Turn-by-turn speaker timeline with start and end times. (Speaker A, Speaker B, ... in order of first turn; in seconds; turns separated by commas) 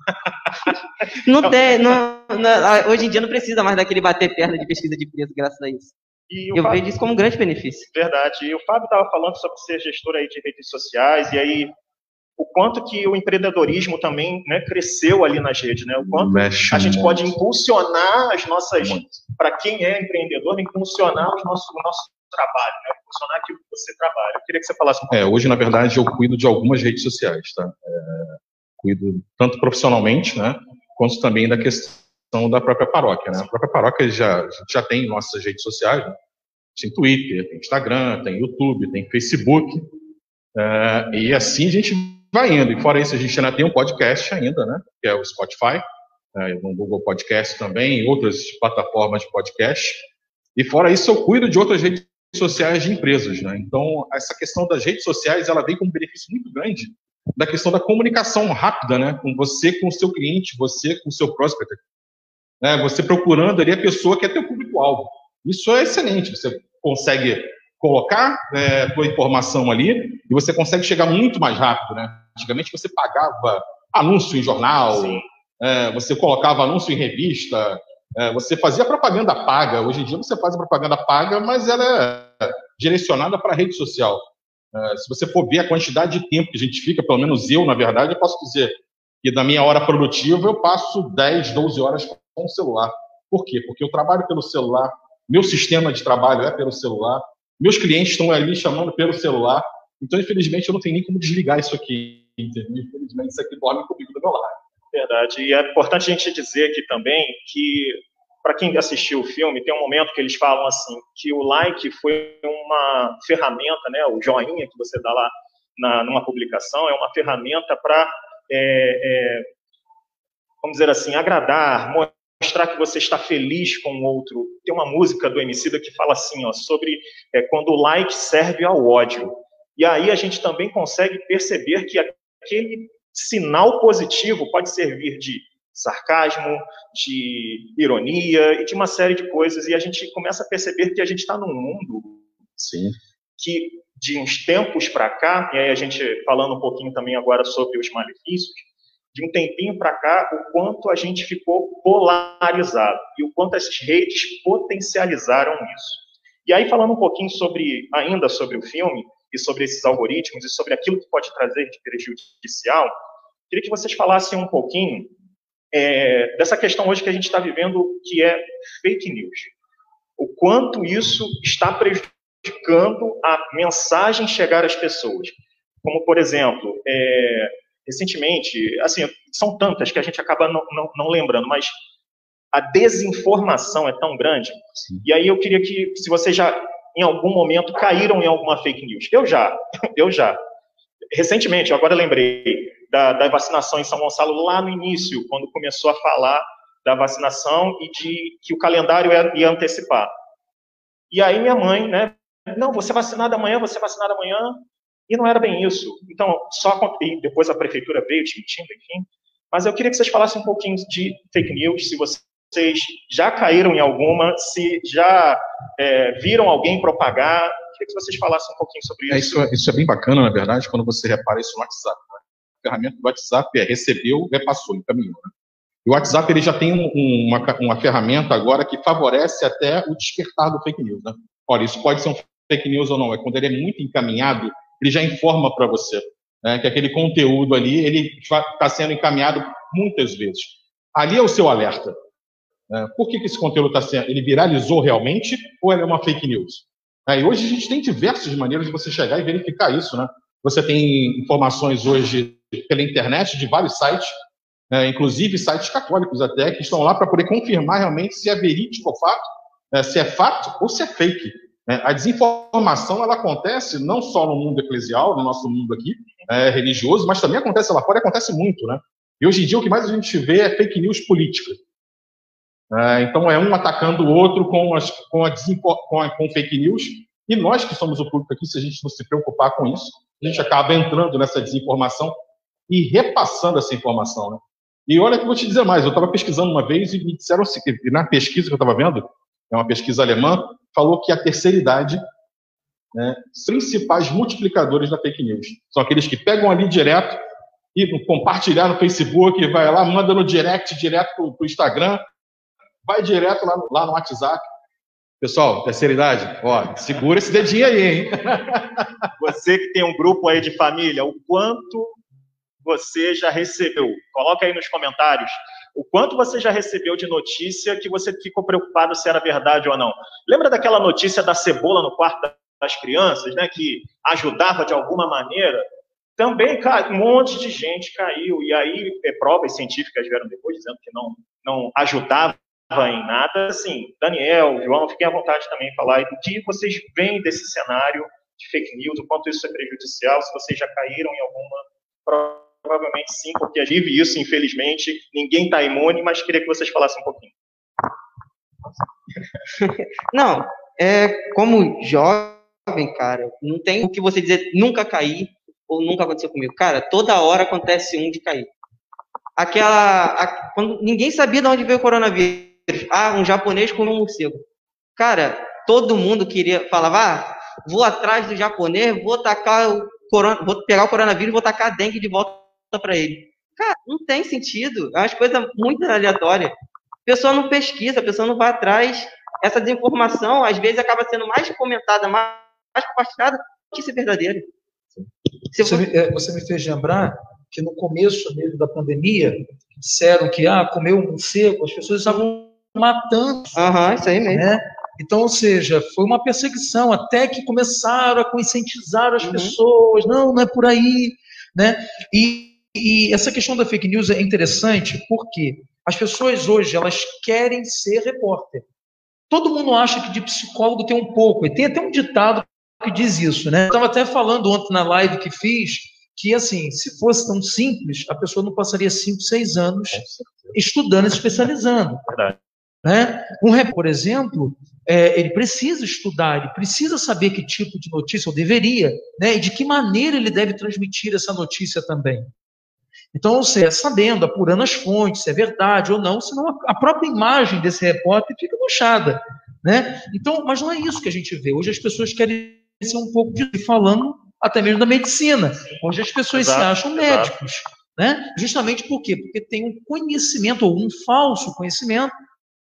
Speaker A: 1.1-6.0, Speaker B: 1.4-1.9, Speaker B: 6.3-6.8, Speaker A: 6.5-7.9, Speaker B: 7.9-11.7, Speaker B: 12.4-25.2, Speaker C: 16.1-17.4, Speaker C: 18.8-19.2, Speaker C: 25.1-36.2, Speaker C: 36.8-39.9, Speaker C: 40.5-45.8, Speaker C: 46.4-61.8, Speaker C: 62.6-104.6, Speaker B: 74.9-75.2, Speaker B: 104.9-119.5, Speaker B: 120.6-142.3, Speaker C: 142.6-143.0, Speaker B: 143.4-162.9, Speaker B: 163.5-165.1, Speaker B: 165.7-169.5, Speaker B: 170.2-181.7, Speaker B: 182.5-190.4, Speaker B: 191.1-200.1, Speaker B: 201.1-219.5, Speaker C: 219.1-225.3, Speaker C: 225.8-242.0, Speaker C: 242.7-254.1, Speaker C: 254.7-271.6, Speaker C: 272.7-282.1, Speaker C: 282.7-292.0, Speaker C: 292.9-297.2, Speaker C: 297.8-302.0, Speaker C: 302.9-304.4, Speaker C: 305.2-309.1, Speaker B: 309.2-311.9, Speaker B: 312.6-325.7, Speaker B: 326.2-347.3, Speaker A: 349.6-358.5, Speaker A: 359.4-364.4, Speaker A: 365.0-376.6, Speaker A: 377.1-384.5, Speaker A: 385.5-385.9, Speaker D: 385.6-393.7, Speaker A: 393.6-394.5, Speaker D: 394.3-408.6, Speaker A: 399.2-399.6, Speaker D: 409.3-420.0, Speaker C: 419.9-420.6, Speaker D: 420.5-422.0, Speaker B: 422.1-422.4, Speaker D: 422.8-432.3, Speaker D: 433.1-452.1, Speaker B: 446.3-447.3